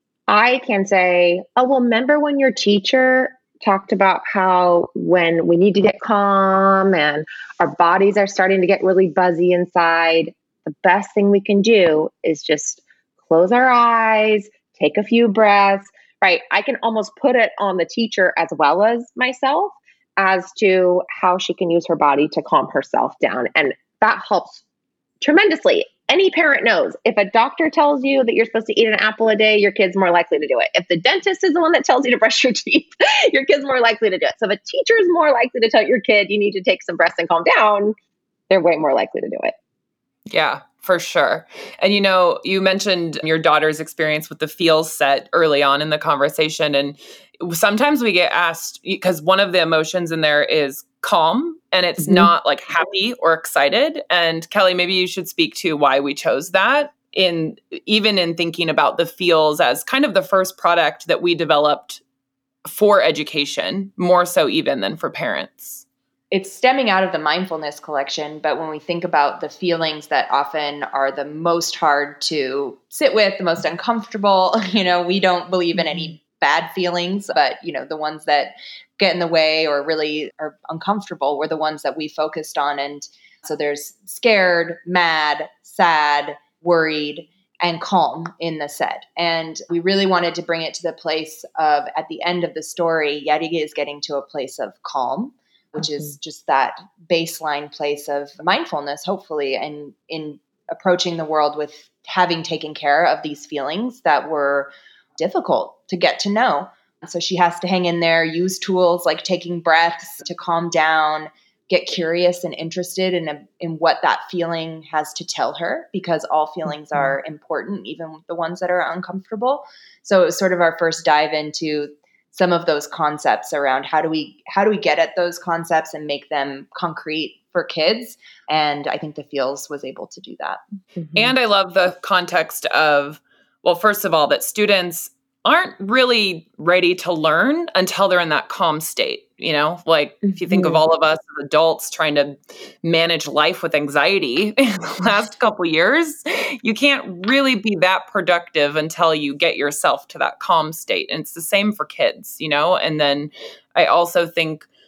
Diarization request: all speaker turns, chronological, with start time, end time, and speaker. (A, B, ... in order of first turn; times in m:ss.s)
0:00.3-0:24.6 A
0:25.2-0:37.9 A
0:38.5-0:39.6 A
0:40.3-1:02.0 B
0:52.0-0:52.3 A
1:02.6-1:05.8 B
1:06.3-2:10.6 C
2:11.1-2:34.7 B
2:20.5-2:20.8 A